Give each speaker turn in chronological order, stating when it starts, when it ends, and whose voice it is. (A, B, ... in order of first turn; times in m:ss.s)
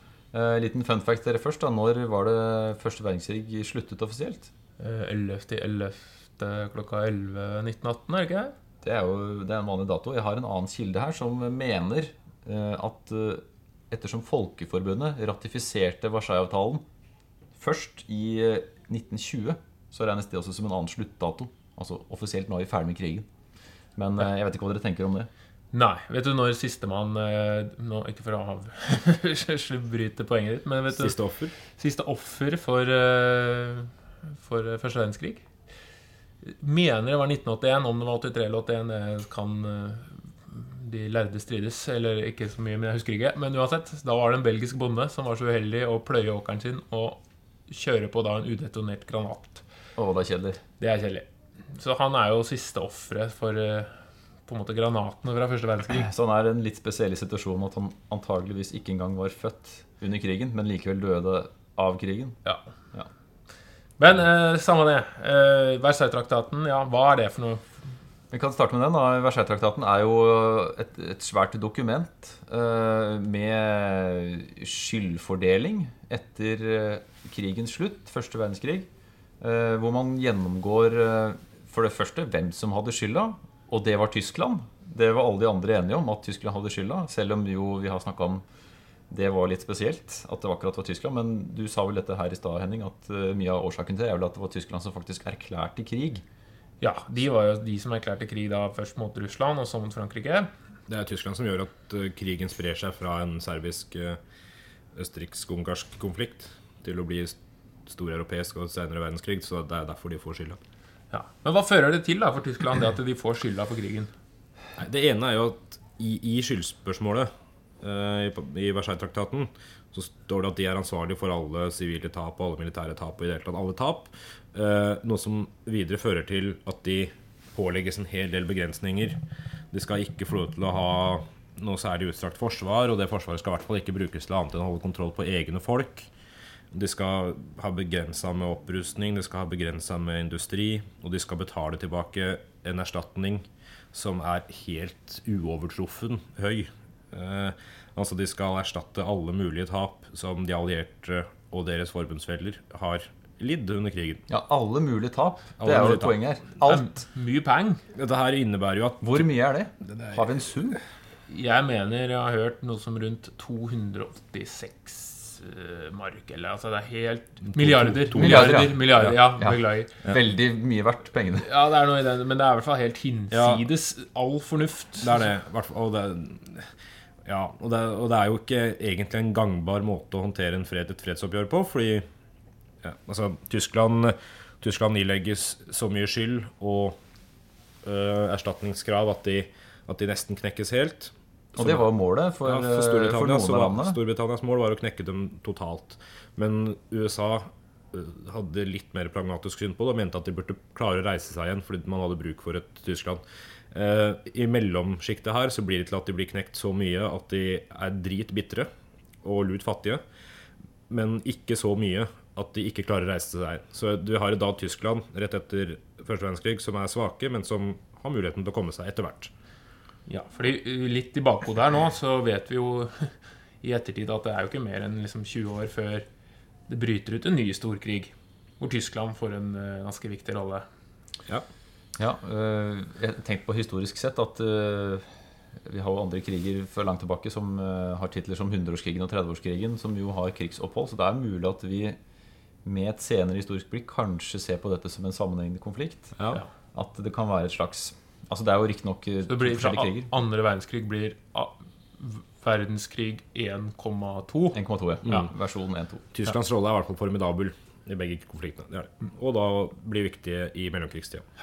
0:00.3-0:04.5 A
0:04.8-0:08.5 B
0:08.8-0:16.8 A
0:17.6-0:23.3 A
0:24.0-0:25.3 A
0:25.7-0:35.4 B
0:30.9-0:31.5 C
0:36.4-0:49.6 B
0:50.0-0:50.6 A
0:50.8-0:53.9 B
0:54.5-0:56.1 B
0:55.9-1:02.4 A
1:04.0-1:07.7 B
1:08.3-1:18.9 A
1:19.4-1:28.4 A
1:29.1-1:36.2 A
1:36.8-1:40.5 B
1:40.9-1:44.2 C
1:45.0-1:50.6 C
1:51.1-1:54.1 B
1:54.8-1:57.3 C
1:57.8-2:09.2 C
2:09.7-2:16.1 C
2:16.7-2:34.2 C
2:34.3-2:36.9 A
2:35.6-2:36.2 C
2:36.6-2:37.8 B
2:37.9-2:39.3 C
2:39.0-2:40.8 A
2:39.8-2:40.2 C
2:41.3-2:49.9 B
2:47.5-2:49.2 C
2:48.1-2:51.5 A
2:51.4-2:55.2 B
2:53.3-2:53.6 C
2:55.0-2:56.7 C
2:57.2-3:02.1 C
3:02.8-3:07.0 C
3:07.8-3:11.9 C
3:11.6-3:14.0 A
3:12.4-3:28.7 C
3:29.2-3:30.0 C
3:30.9-3:39.3 C
3:40.1-3:46.0 B
3:46.7-3:50.6 B
3:52.0-4:02.0 A
4:02.6-4:06.2 A
4:06.7-4:10.1 A
4:09.3-4:15.3 B
4:14.5-4:16.1 A
4:16.1-4:21.2 C